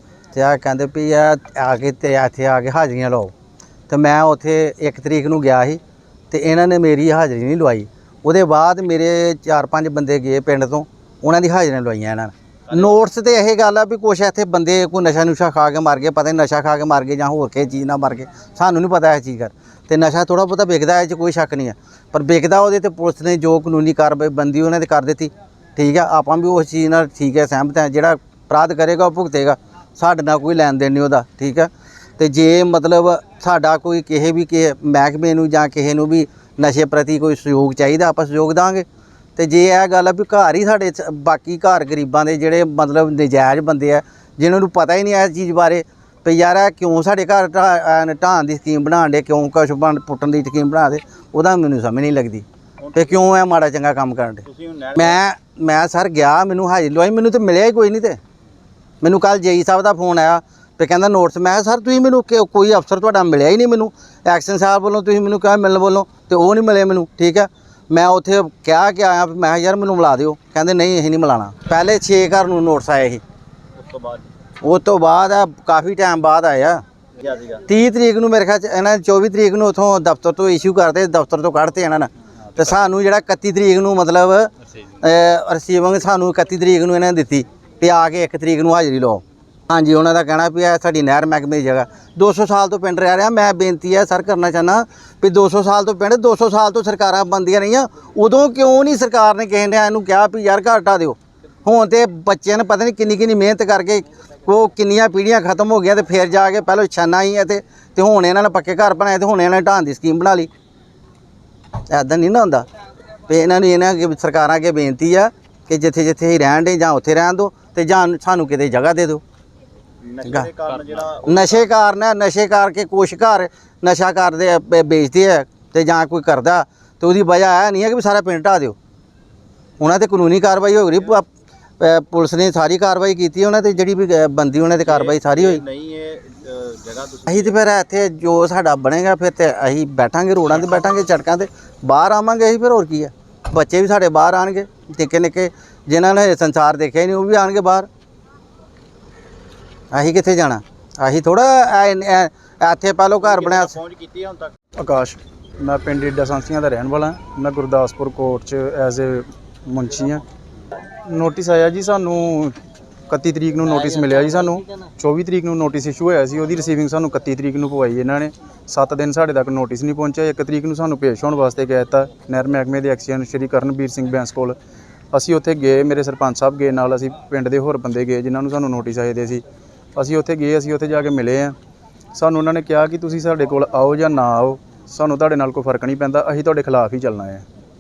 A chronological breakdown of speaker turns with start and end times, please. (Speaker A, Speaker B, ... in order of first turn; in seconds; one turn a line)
Speaker A: 0.3-3.3
Speaker A: 3.9-5.8
Speaker A: 6.3-54.4
Speaker B: 52.8-53.2
Speaker B: 54.5-55.2
Speaker A: 55.0-58.2
Speaker A: 59.0-73.2
Speaker B: 73.8-74.3
Speaker A: 74.6-76.8
Speaker B: 77.2-77.6
Speaker A: 77.7-110.5
Speaker A: 111.9-112.7
Speaker A: 113.3-119.2
Speaker B: 120.0-121.7
Speaker A: 121.2-128.8
Speaker A: 129.8-131.3
Speaker A: 131.8-135.6
Speaker B: 134.8-137.6
Speaker A: 137.3-147.9
Speaker A: 149.9-153.8
Speaker B: 153.2-154.5
Speaker C: 154.8-160.2
Speaker C: 161.1-162.6
Speaker C: 163.1-174.6
Speaker C: 175.1-179.4
Speaker C: 180.0-181.6
Speaker C: 182.2-187.4